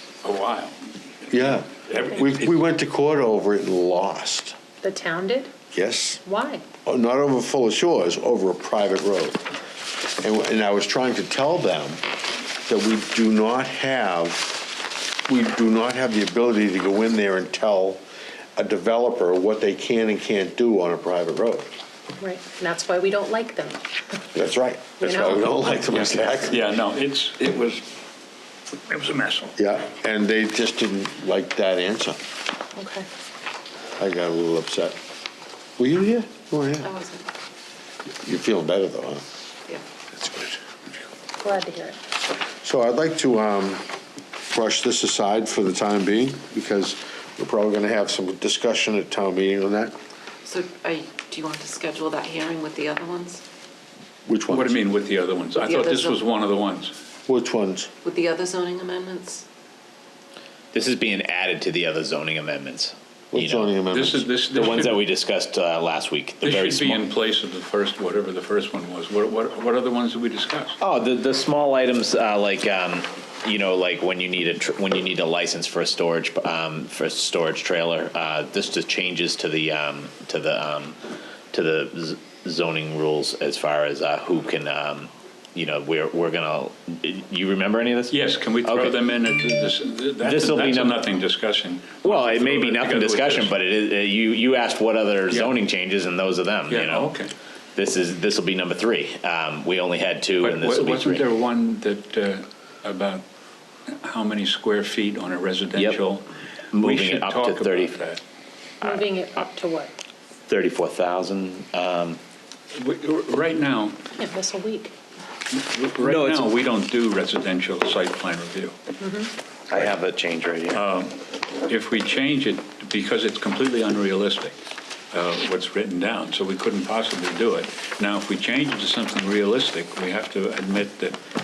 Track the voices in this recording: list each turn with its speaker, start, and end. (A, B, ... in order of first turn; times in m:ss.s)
0:00.2-0:00.8 A
0:01.3-0:04.6 B
0:01.4-0:02.6 A
0:04.8-0:05.5 C
0:05.7-0:06.2 B
0:06.2-0:06.6 C
0:06.8-0:09.5 B
0:10.2-0:12.0 B
0:12.6-0:14.7 B
0:15.3-0:18.0 B
0:18.6-0:21.7 B
0:22.2-0:23.8 C
0:24.3-0:26.7 B
0:25.0-0:26.0 C
0:25.9-0:27.9 A
0:28.9-0:29.6 A
0:29.6-0:32.2 B
0:32.8-0:33.1 C
0:34.0-0:35.0 B
0:35.8-0:36.9 B
0:36.8-0:37.3 D
0:38.2-0:39.2 B
0:40.1-0:40.6 B
0:41.4-0:42.0 C
0:42.6-0:43.8 B
0:44.5-0:49.9 B
0:50.4-0:53.4 D
0:54.3-0:54.8 B
0:54.5-0:57.0 A
0:55.6-0:56.2 D
0:57.3-0:57.9 B
0:58.0-0:59.4 D
1:00.7-1:03.8 E
1:03.3-1:04.3 B
1:03.9-1:05.1 A
1:04.5-1:07.1 E
1:06.4-1:10.8 A
1:10.8-1:21.0 E
1:21.5-1:29.0 E
1:28.1-1:33.6 A
1:30.2-1:31.1 E
1:32.0-1:37.2 E
1:36.7-1:37.3 A
1:37.8-1:41.3 E
1:40.4-1:43.2 A
1:43.9-1:48.2 A
1:46.7-1:48.1 E
1:48.8-1:49.9 C
1:50.5-1:52.2 E
1:52.7-1:54.0 A
1:54.1-1:54.9 C
1:55.5-1:58.8 A
1:56.0-1:56.5 E
1:59.0-1:59.3 C
1:59.7-2:00.9 E
2:00.7-2:04.6 A
2:05.1-2:11.2 A